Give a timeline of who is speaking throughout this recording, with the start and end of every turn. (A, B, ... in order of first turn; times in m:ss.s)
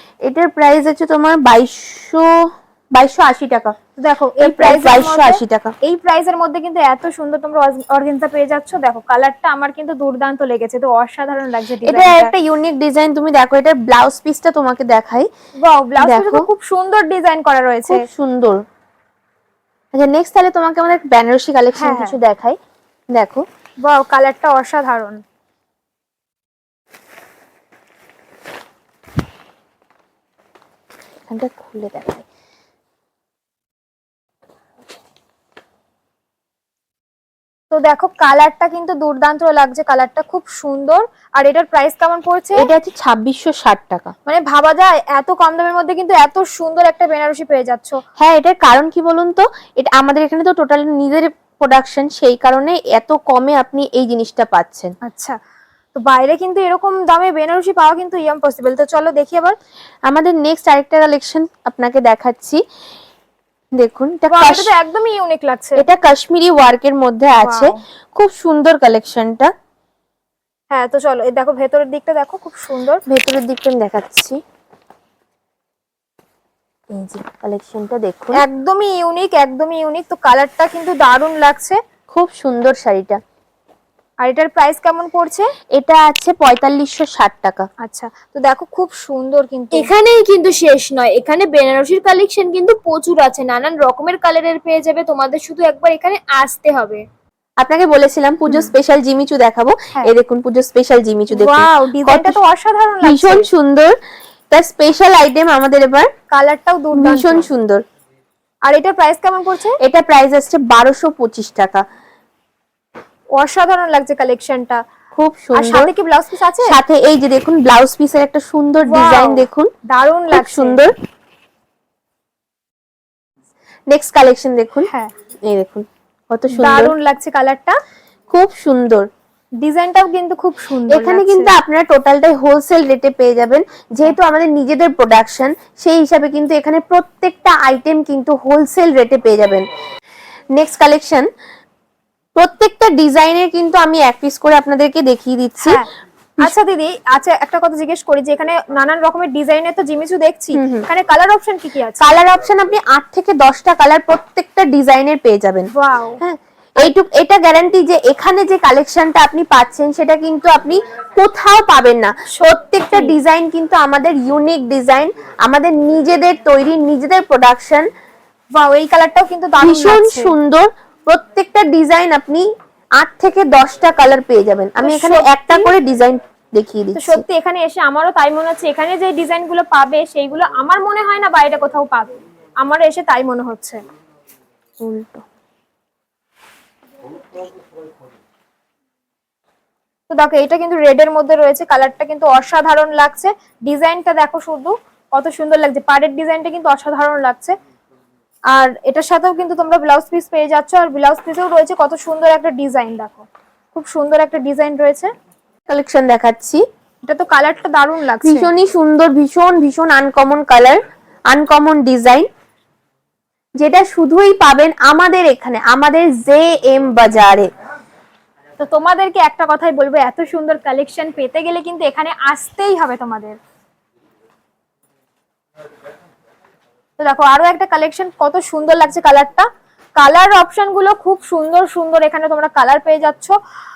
0:00.2-0:03.7 A
0:04.0-0:12.3 B
0:04.4-0:05.7 A
0:11.8-0:15.3 A
0:15.6-0:18.0 B
0:16.0-0:16.5 A
0:17.9-0:18.6 A
0:19.9-0:22.6 A
0:21.8-0:22.2 B
0:23.1-0:23.4 A
0:23.8-0:25.2 B
0:31.3-0:32.2 A
0:37.7-0:42.7 B
0:42.6-0:44.1 A
0:44.3-0:48.0 B
0:48.2-0:54.9 A
0:55.0-0:55.4 B
0:56.0-0:59.6 B
1:00.1-1:02.6 A
1:03.8-1:04.7 A
1:04.3-1:05.9 B
1:05.8-1:09.5 A
1:07.4-1:07.8 B
1:10.7-1:13.0 B
1:13.1-1:14.4 A
1:16.9-1:18.4 A
1:18.3-1:21.8 B
1:22.1-1:23.2 A
1:24.2-1:25.5 B
1:25.7-1:27.7 A
1:27.8-1:29.9 B
1:29.7-1:35.7 C
1:35.8-1:37.0 B
1:37.6-1:42.4 A
1:41.3-1:43.5 B
1:43.0-1:44.0 A
1:44.5-1:46.1 A
1:46.3-1:47.5 B
1:47.0-1:47.8 A
1:48.7-1:49.8 B
1:49.8-1:51.8 A
1:53.4-1:54.8 B
1:55.2-1:55.9 A
1:55.5-1:56.8 B
1:56.6-1:59.7 A
1:58.9-2:00.8 B
2:00.3-2:00.9 A
2:03.9-2:04.9 A
2:05.5-2:07.0 A
2:06.5-2:07.8 B
2:08.3-2:09.1 A
2:09.6-2:11.5 B
2:10.9-2:19.6 A
2:20.6-2:21.3 A
2:22.4-2:25.8 A
2:25.6-2:25.9 B
2:26.4-2:32.2 B
2:30.6-2:30.9 A
2:32.0-2:35.7 A
2:35.7-2:36.2 B
2:36.2-2:47.9 A
2:42.3-2:43.2 B
2:48.6-2:50.4 B
2:49.6-2:52.5 A
2:53.0-2:57.2 A
2:54.8-2:55.7 B
2:57.0-3:03.8 B
3:04.8-3:05.2 A
3:10.1-3:17.5 B
3:18.5-3:25.1 B
3:25.7-3:26.6 A
3:27.1-3:28.5 B
3:28.2-3:32.3 A
3:33.6-3:37.5 A
3:38.6-3:43.4 B
3:47.0-3:53.4 B